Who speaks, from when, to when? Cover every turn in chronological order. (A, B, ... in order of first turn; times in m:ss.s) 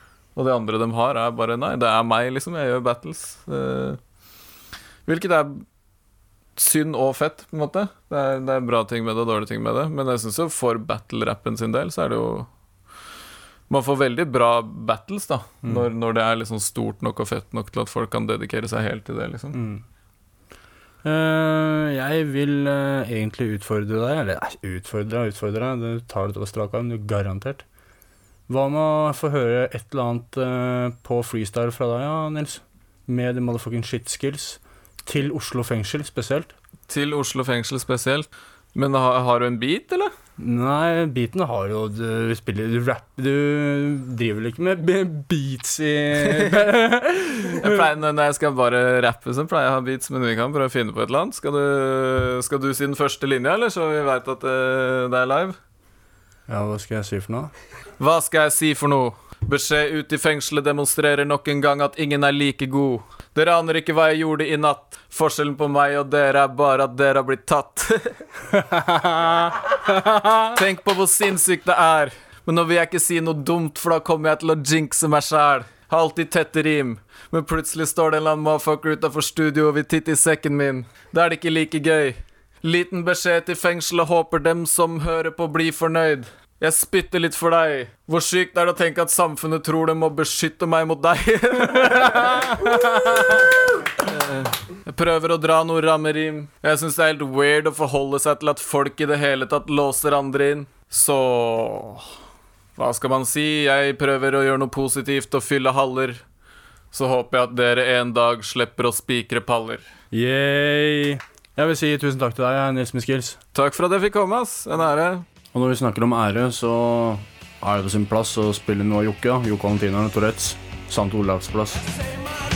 0:00.4-0:04.0 A
0:05.1-0:05.6 A
0:06.6-0:12.5 A
0:13.7-0:19.6 A
0:19.5-0:19.8 B
0:21.0-0:27.6 B
0:28.5-0:36.5 B
0:36.9-0:40.1 A
0:40.4-0:47.7 B
0:47.5-0:55.6 A
0:56.5-0:57.5 B
0:58.0-1:08.2 A
1:08.7-1:09.3 B
1:10.6-1:33.5 A
1:34.0-1:42.0 A
1:42.8-1:46.2 A
1:46.9-1:49.9 A
1:50.1-1:53.4 B
1:53.5-1:55.2 A
1:55.5-2:01.8 B